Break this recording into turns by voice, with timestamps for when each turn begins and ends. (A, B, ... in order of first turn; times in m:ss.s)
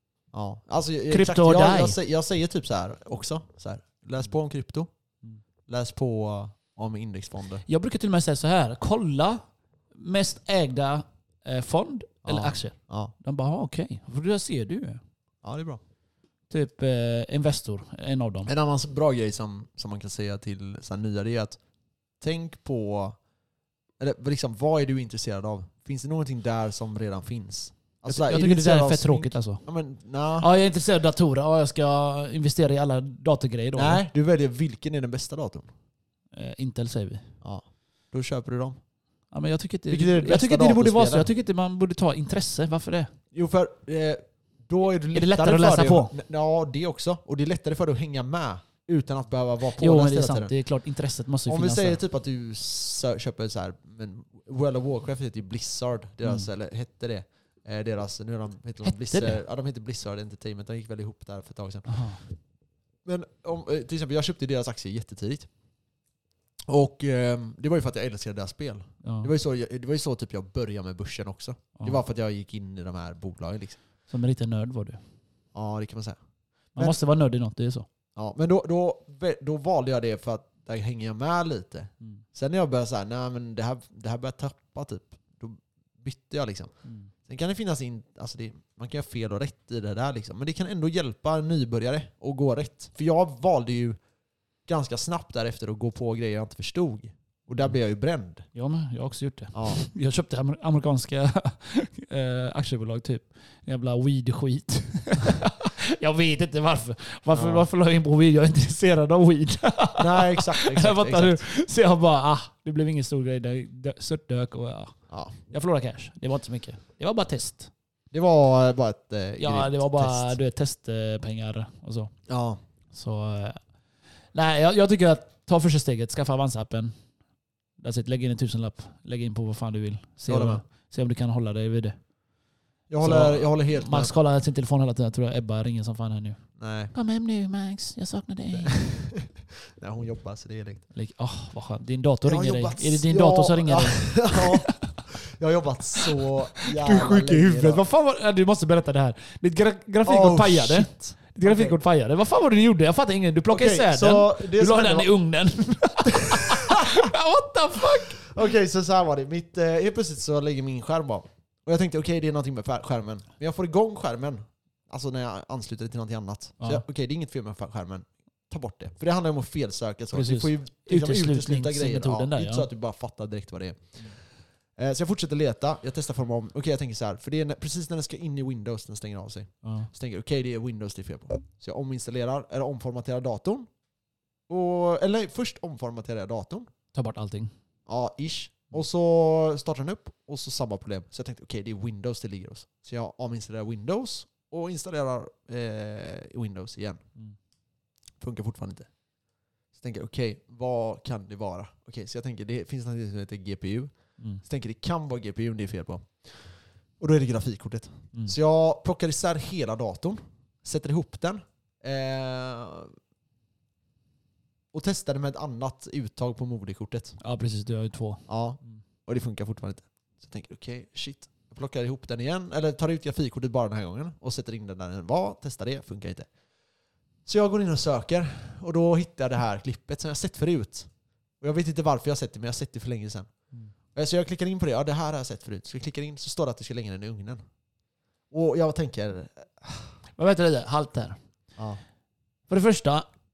0:00.3-0:04.9 A
0:01.1-0:02.0 B
0:05.7-0:07.6 A
0:07.6-0:09.4 B
0:09.9-0:15.0 B
0:12.2-0:13.1 A
0:15.4-0:15.8 A
0:16.5-0:18.5 B
0:18.5-0:21.6 A
0:22.2-0:23.2 A
0:24.0-0:30.5 A
0:28.0-0:29.6 B
0:30.4-0:34.0 B
0:33.7-0:35.7 A
0:36.3-0:37.3 B
0:37.4-0:38.8 A
0:39.3-0:43.1 B
0:39.9-0:41.3 A
0:43.3-0:50.5 A
0:45.1-0:46.1 B
0:49.8-0:52.0 B
0:51.5-1:02.0 A
0:58.8-0:59.4 B
1:01.8-1:02.2 B
1:03.0-1:05.5 A
1:06.7-1:13.8 A
1:09.0-1:09.3 B
1:14.1-1:15.0 B
1:15.5-1:16.2 A
1:16.7-1:17.8 B
1:18.2-1:26.7 A
1:26.8-1:27.1 B
1:27.2-1:34.0 A
1:34.6-1:38.5 A
1:38.5-1:55.0 B
1:39.5-1:39.8 A
1:47.3-1:47.6 A
1:50.0-1:51.4 A
1:55.1-1:55.3 A
1:55.5-1:57.7 B
1:58.1-2:00.3 A
1:59.4-2:02.1 B
2:02.3-2:02.6 A
2:02.9-2:03.6 B
2:04.3-2:06.9 B
2:07.8-2:12.0 B
2:10.3-2:10.6 A
2:12.9-2:14.1 A
2:13.0-2:16.4 B
2:16.6-2:16.9 A
2:16.9-2:18.8 B
2:18.6-2:20.8 A
2:20.9-2:25.0 B
2:22.2-2:27.8 A
2:26.6-2:38.3 B
2:30.0-2:31.8 A
2:33.5-2:35.1 A
2:36.3-2:37.1 A
2:37.9-2:54.0 A
2:46.6-2:46.8 B
2:50.1-2:52.7 B
2:54.8-3:03.7 A
2:59.6-2:59.9 B
3:04.5-3:06.7 A
3:06.9-3:07.5 B
3:07.9-3:17.0 A
3:18.2-3:18.9 A
3:19.8-3:32.9 A
3:34.7-3:37.2 A
3:37.2-3:38.8 B
3:38.3-3:46.3 A
3:47.2-3:50.9 A
3:51.4-3:53.3 A
3:53.9-3:57.4 A
3:58.3-3:59.9 A
4:00.2-4:01.2 B
4:02.5-4:03.0 B